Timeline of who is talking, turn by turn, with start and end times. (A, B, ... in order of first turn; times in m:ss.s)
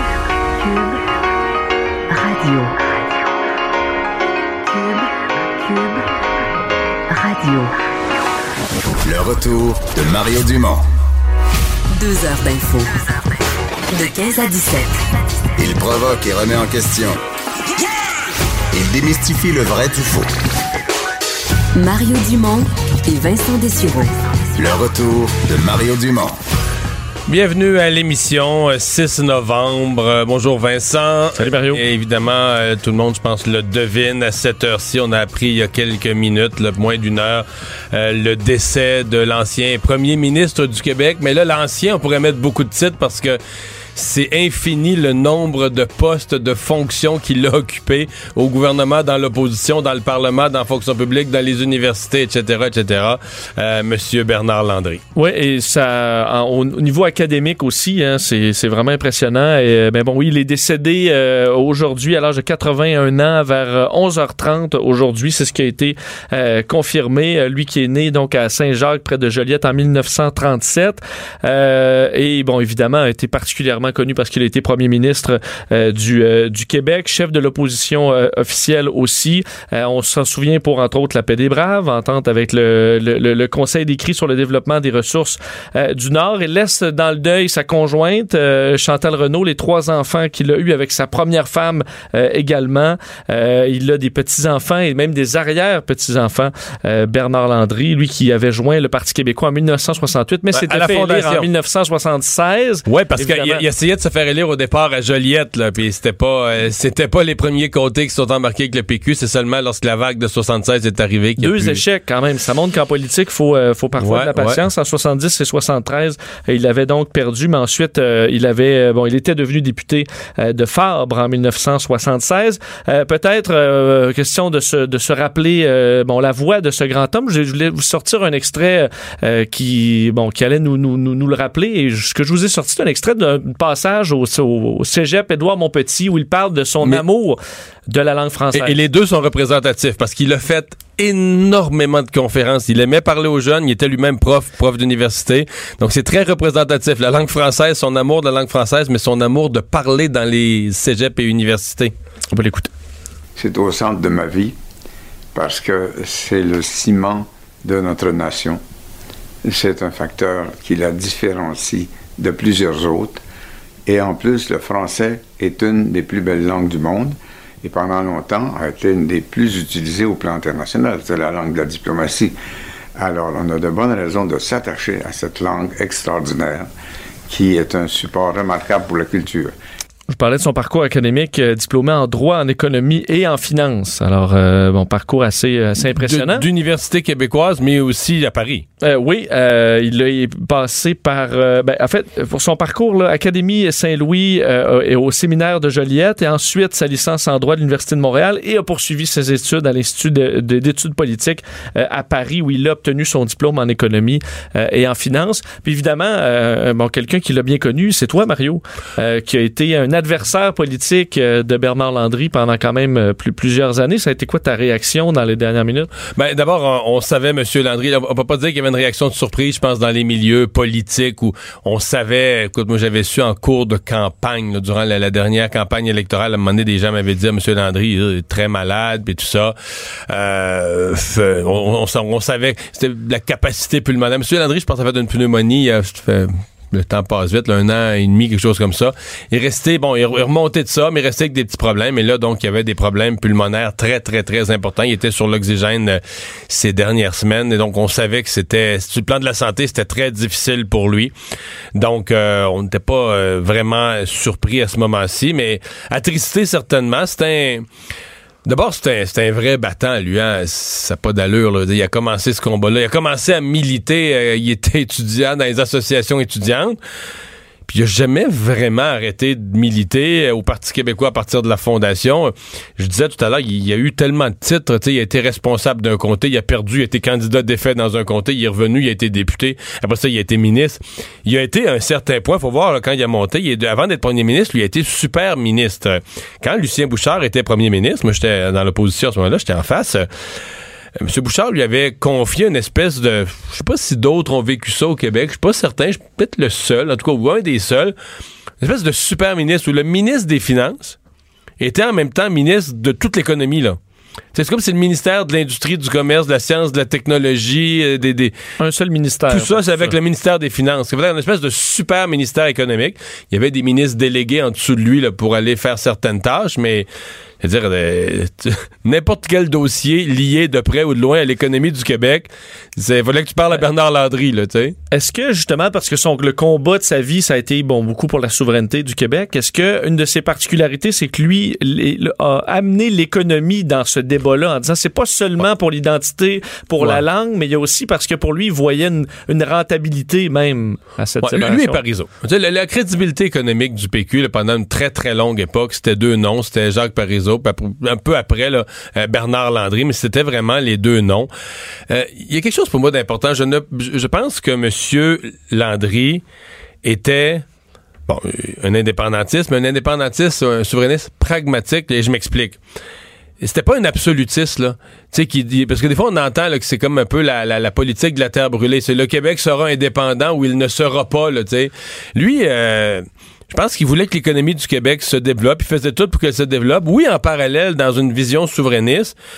0:00.6-0:00.9 A
0:02.1-0:03.0 A
0:04.7-0:05.0 A
0:05.6-0:06.0 A
0:07.1-0:07.7 A
0:09.0-0:10.9 B
0:12.0-0:12.9 A
0:13.9-0:15.0 A
0:15.6-0:17.2 B
0:18.7-0:20.3 B
0:21.7-0:24.1 A
0:24.5-0:26.4 B
0:27.3-0:43.4 C
0:31.4-0:31.8 D
0:43.9-0:55.0 C
0:55.1-1:43.6 D
1:40.5-1:41.5 C
1:42.9-1:51.8 C
1:51.4-2:18.8 D
1:54.0-1:54.6 C
2:18.5-2:31.9 C
2:32.3-2:32.7 D
2:33.4-2:34.6 E
2:35.3-2:38.6 E
2:39.4-2:43.2 E
2:43.8-2:52.3 E
2:53.0-2:56.7 E
2:57.3-2:59.5 E
3:00.1-3:06.4 D
3:05.9-3:08.6 C
3:08.8-3:35.9 D
3:36.2-3:49.5 C
3:50.1-4:11.1 C
4:11.7-4:17.6 C
4:18.4-4:26.8 C
4:27.7-4:50.1 C
4:51.0-4:57.9 C
4:58.6-5:01.0 C
5:01.6-5:03.8 C
5:04.3-5:08.3 C
5:08.6-5:10.0 D
5:09.3-5:16.9 C
5:17.4-5:24.8 C
5:24.9-5:41.8 D
5:41.2-5:51.3 C
5:51.9-5:56.2 C
5:56.8-5:57.4 C
5:58.1-6:02.6 C
6:03.4-6:19.1 C